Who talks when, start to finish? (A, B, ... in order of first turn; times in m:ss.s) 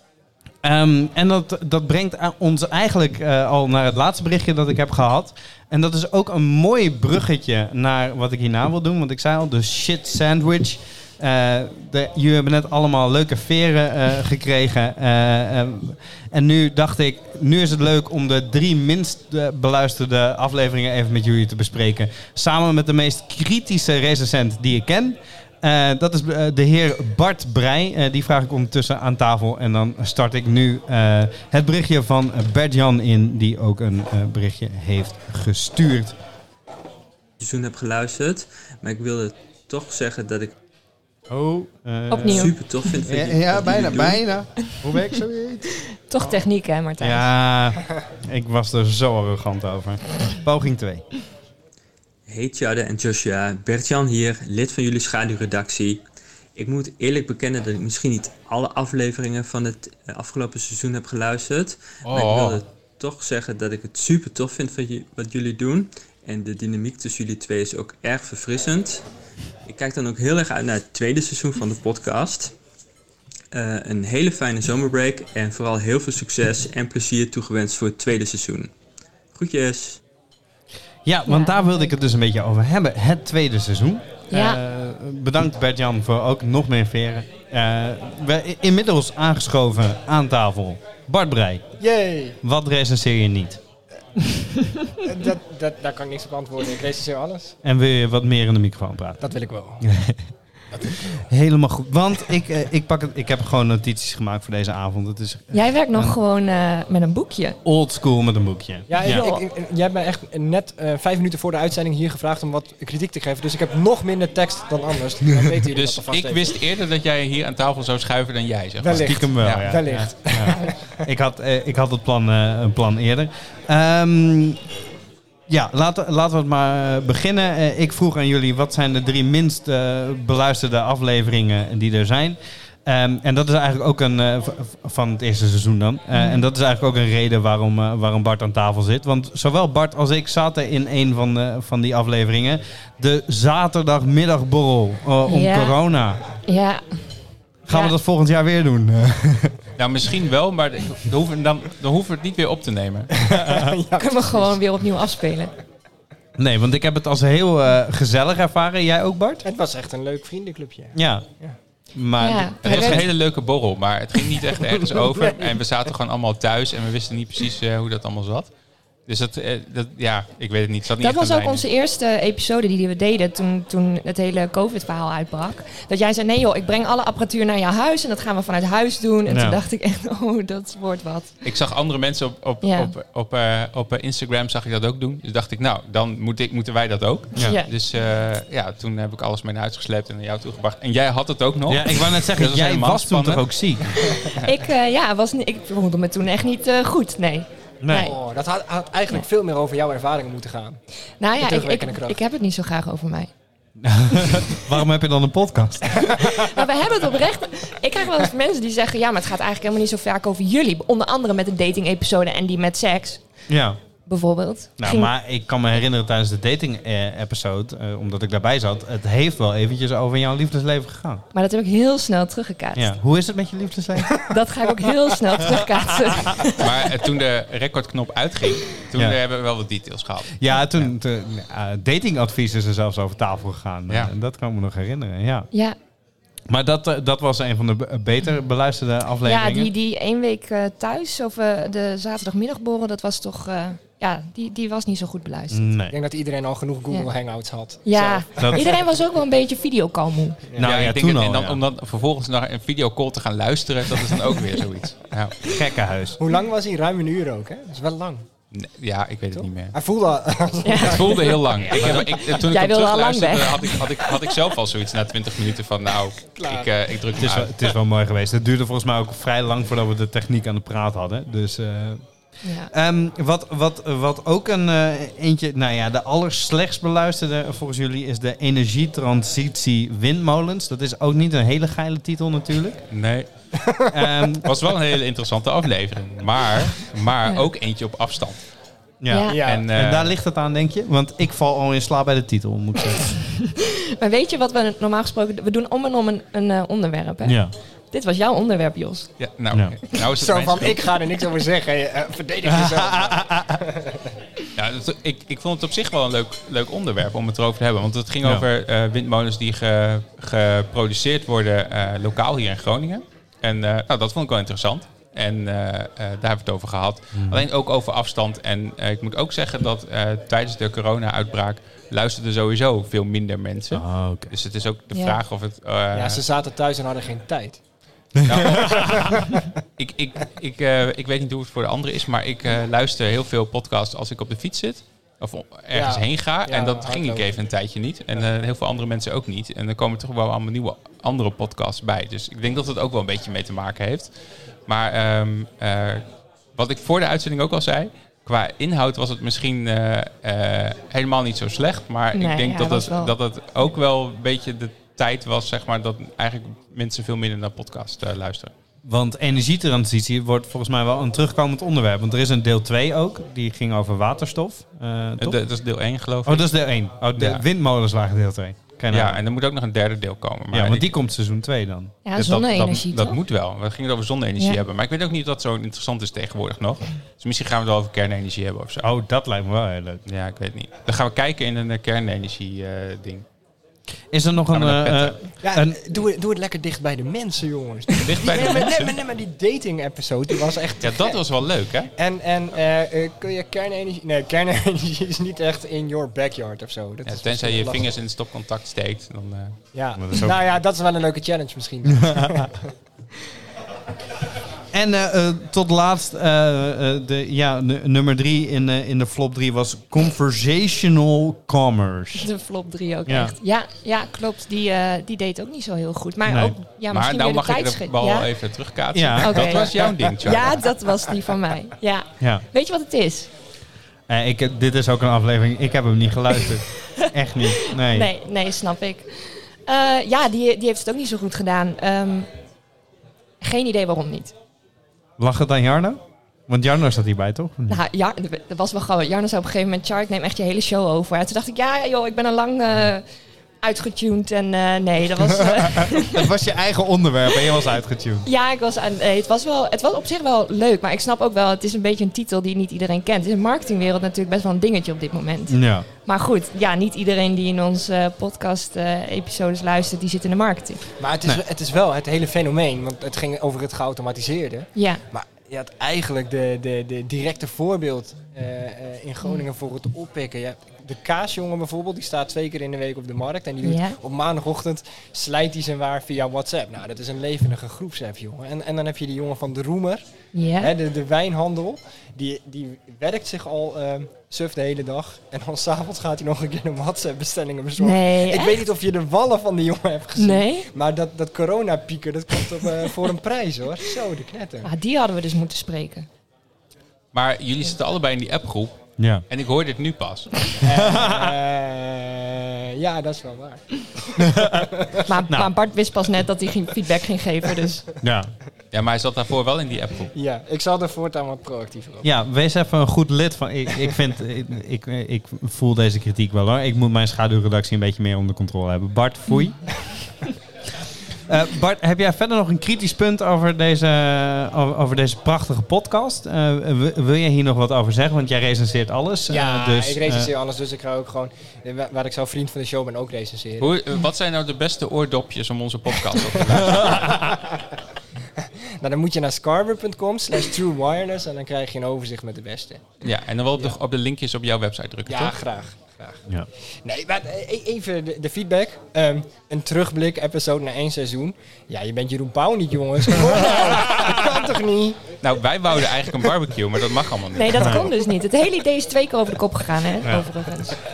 0:00.6-0:36.2 A
0:37.4-0:40.6 B
0:41.3-0:45.7 A
0:42.1-0:42.6 C
0:42.2-0:44.2 B
0:46.1-0:47.3 C
0:47.0-0:51.1 A
0:52.3-0:56.0 B
0:56.6-1:09.0 B
1:02.0-1:02.6 D
1:09.7-1:12.6 B
1:13.5-1:18.7 B
1:19.3-1:20.0 B
1:21.0-1:31.7 A
1:21.3-1:21.9 C
1:24.3-1:24.6 C
1:31.8-1:32.4 E
1:32.4-1:33.6 A
1:35.0-1:37.6 E
1:37.6-1:40.3 A
1:39.2-1:39.8 E
1:41.0-1:46.2 A
1:45.5-1:47.6 C
1:47.6-1:49.3 A
1:48.9-1:56.5 E
1:49.0-1:49.4 C
1:55.7-1:59.8 D
1:58.8-2:01.0 E
1:58.9-2:04.6 A
2:05.5-2:26.2 A
2:16.1-2:16.4 C
2:25.3-2:25.8 C
2:26.5-2:26.8 C
2:27.7-2:29.6 A
2:29.8-2:33.1 D
2:33.2-2:34.5 E
2:33.4-2:33.8 A
2:34.0-2:35.5 C
2:36.4-2:39.4 A
2:39.4-2:41.6 E
2:41.0-2:41.3 A
2:41.9-2:43.1 A
2:42.2-2:43.0 C
2:42.6-2:48.5 D
2:45.0-2:45.5 E
2:49.1-2:51.6 D
2:51.0-3:01.3 C
2:59.3-2:59.6 A
3:01.4-3:13.5 D
3:02.6-3:02.9 C
3:07.4-3:07.7 C
3:11.7-3:14.0 A
3:14.4-3:18.1 C
3:17.8-3:18.1 A
3:18.0-3:20.8 E
3:21.2-3:23.3 C
3:21.4-3:22.2 E
3:23.8-3:26.1 A
3:26.1-3:33.2 C
3:33.5-3:33.8 A
3:34.1-3:35.1 C
3:34.8-3:41.2 A
3:41.3-3:43.0 C
3:42.8-3:44.3 A
3:44.2-3:46.7 C
3:45.5-3:46.3 A
3:46.5-3:50.9 D
3:50.4-3:55.5 A
3:56.5-3:59.7 A
3:59.2-4:05.6 C
4:05.5-4:06.0 A
4:05.9-4:08.8 E
4:07.8-4:10.4 C
4:08.4-4:08.6 A
4:10.6-4:11.6 A
4:10.6-4:15.4 D
4:15.4-4:16.2 A
4:16.2-4:18.3 E
4:18.5-4:19.8 D
4:19.3-4:22.2 E
4:20.6-4:21.4 C
4:20.8-4:27.7 D
4:22.2-4:24.2 C
4:26.4-4:26.7 E
4:27.2-4:32.0 A
4:32.4-4:32.7 C
4:32.7-4:42.8 A
4:42.9-4:43.3 D
4:43.6-4:43.9 E
4:43.9-4:44.5 A
4:44.4-4:48.4 D
4:49.0-4:53.1 A
4:49.1-4:49.4 C
4:49.3-4:49.7 E
4:49.4-4:50.1 D
4:53.4-4:57.4 C
4:57.2-4:57.5 A
4:57.9-4:59.1 C
4:59.2-5:00.9 D
5:00.2-5:04.1 E
5:02.4-5:03.6 A
5:04.6-5:26.2 D
5:17.2-5:17.5 A
5:23.7-5:24.3 A
5:25.9-5:27.6 E
5:28.2-5:29.0 A
5:28.2-5:29.2 D
5:28.5-5:29.5 E
5:29.8-5:44.1 D
5:35.7-5:37.4 E
5:44.7-5:46.0 D
5:46.6-5:58.5 D
5:52.1-5:53.1 C
5:58.8-6:05.4 A
6:05.2-6:06.5 D
6:06.2-6:09.2 A
6:07.2-6:07.4 D
6:08.9-6:10.9 D
6:10.5-6:12.0 A
6:12.0-6:13.2 C
6:12.2-6:18.9 D
6:18.8-6:20.0 A
6:20.1-6:23.2 D
6:24.1-6:25.8 A
6:24.5-6:25.2 D
6:25.4-6:31.2 E
6:28.0-6:29.0 D
6:30.8-6:31.9 D
6:32.0-6:37.9 E
6:37.0-6:39.6 D
6:39.7-6:42.7 E
6:40.0-6:40.4 A
6:41.8-6:42.4 A
6:44.7-6:52.3 A
6:52.2-6:58.3 C
6:53.1-6:53.3 A
6:56.3-6:56.6 A
6:56.9-7:00.7 D
6:58.9-6:59.7 A
6:59.2-7:03.3 C
7:04.1-7:08.1 A
7:07.6-7:12.3 C
7:13.4-7:14.3 C
7:15.2-7:17.8 A
7:17.7-7:23.0 C
7:23.6-7:26.2 C
7:25.6-7:28.3 A
7:28.2-7:40.8 C
7:35.5-7:35.9 A
7:41.0-8:00.0 E
7:44.8-7:45.0 C
7:53.6-7:54.0 C
8:00.3-8:00.7 C
8:00.6-8:14.7 E
8:07.8-8:08.6 C
8:10.2-8:10.7 C
8:14.6-8:16.1 C
8:17.1-8:20.5 D
8:19.0-8:19.2 A
8:20.6-8:25.0 E
8:20.7-8:21.4 A
8:24.2-8:24.7 A
8:25.0-8:27.8 C
8:28.0-8:28.3 A
8:28.7-8:30.1 D
8:30.1-8:32.1 E
8:32.0-8:39.7 A
8:41.3-8:50.3 A
8:49.3-8:53.7 E
8:53.6-8:57.4 D
8:57.1-8:57.6 E
8:58.4-9:02.9 E
9:03.0-9:05.4 D
9:05.1-9:06.2 E
9:06.8-9:15.1 E
9:15.2-9:17.9 D
9:17.4-9:20.8 C
9:17.6-9:17.9 A
9:20.0-9:20.3 A